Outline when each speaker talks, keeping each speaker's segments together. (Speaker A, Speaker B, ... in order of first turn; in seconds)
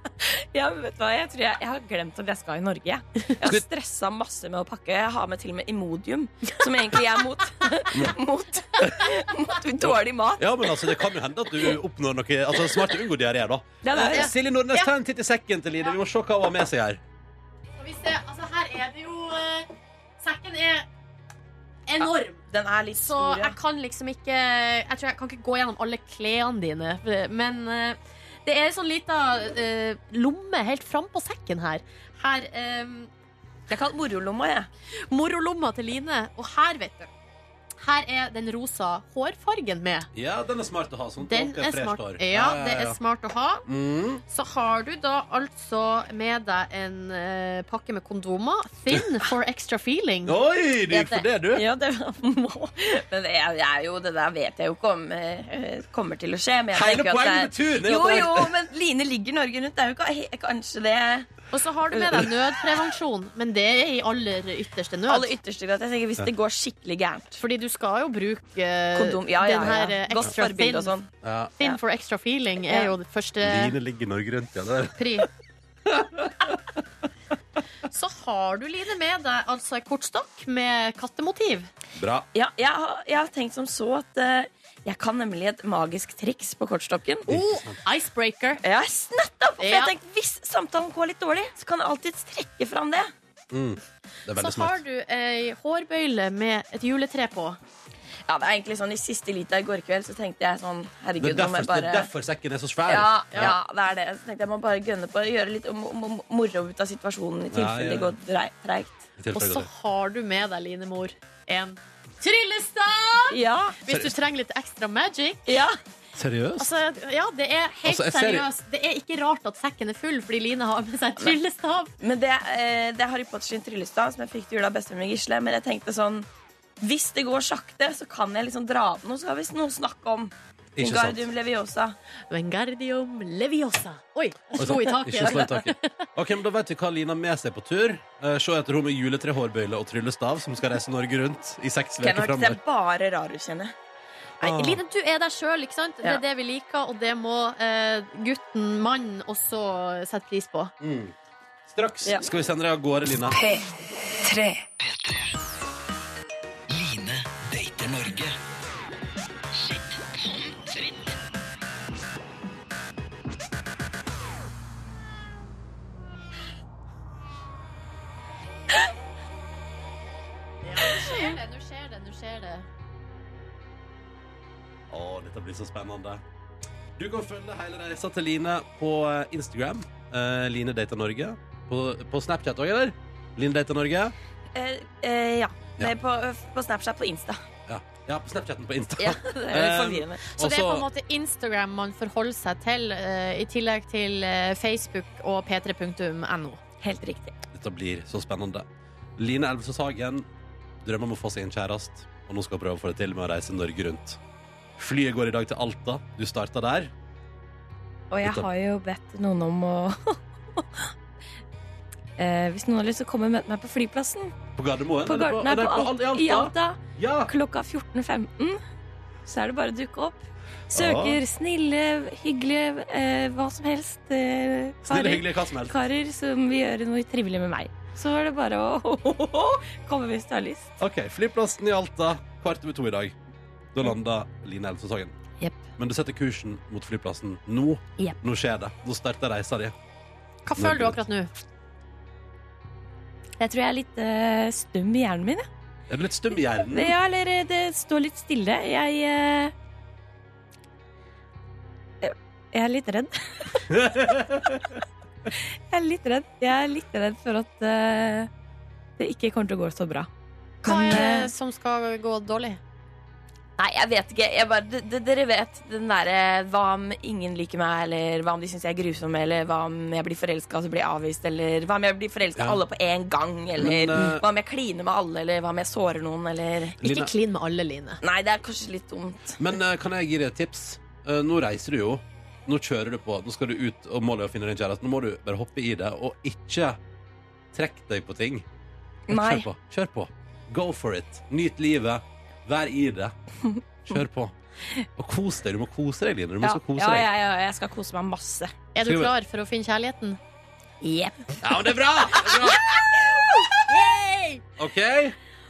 Speaker A: 0.2-11.1, 13.8-14.3, 22.0-23.6, 33.7-34.7, 51.0-61.4, 61.9-62.2, 65.1-67.3, 69.0-71.8, 72.7-73.0, 82.3-87.3, 88.6-93.1, 98.3-102.1, 102.9-109.1, 113.3-113.8, 115.5-115.8, 122.0-126.3, 126.8-132.0, 135.2-135.6, 142.0-143.7, 153.3-153.6, 154.3-154.6, 170.8-171.4, 184.5-187.4, 189.0-190.2, 196.8-197.3, 208.1-210.9, 212.2-214.4, 215.0-218.6, 219.2-230.7, 243.4-245.5, 246.6-249.5, 252.0-254.1, 255.3-258.3, 259.0-260.1, 260.6-261.3, 263.6-276.8, 278.0-279.5, 289.1-289.5, 293.5-294.0, 296.4-298.6, 300.8-303.8
Speaker B: 8.8-9.1, 9.8-17.0, 40.1-43.0, 43.7-44.2, 50.3-51.6, 56.7-58.5, 71.2-71.5, 73.4-75.2, 75.9-76.6, 82.0-82.3, 87.3-87.8, 93.5-94.8, 101.2-103.5, 107.5-108.1, 109.2-109.7, 116.2-116.7, 117.9-118.5, 130.8-131.3, 134.6-142.6, 144.4-144.8, 150.8-151.1, 151.7-153.4, 174.9-176.2, 177.0-184.1, 187.7-190.9, 197.5-198.7, 199.2-200.3, 200.8-204.2, 204.8-206.9, 208.2-208.5, 214.6-217.3, 220.7-221.2, 224.8-225.8, 230.8-233.2, 233.7-235.2, 235.8-239.8, 240.6-241.0, 245.9-247.0, 253.7-254.7, 273.6-274.2, 276.8-277.1, 279.4-286.8, 287.5-288.4, 289.1-293.1, 293.9-294.4, 295.0-297.1, 298.8-299.1, 301.4-302.6, 304.6-305.2
Speaker C: 13.9-14.9, 17.8-19.7, 20.2-20.9, 21.9-22.4, 23.0-33.1, 35.1-37.1, 37.8-40.1, 41.2-43.6, 44.2-50.4, 50.9-51.2, 61.5-65.3, 67.4-70.9, 71.6-73.8, 75.0-75.3, 77.9-81.7, 87.3-88.6, 89.6-89.9, 94.4-97.6, 109.3-115.5, 116.6-121.9, 132.3-135.9, 144.4-150.7, 170.6-172.7, 190.3-196.6, 240.5-241.3, 260.6-262.6, 276.8-278.0, 298.8-300.2, 303.7-304.4
Speaker D: 154.6-155.3, 156.7-158.4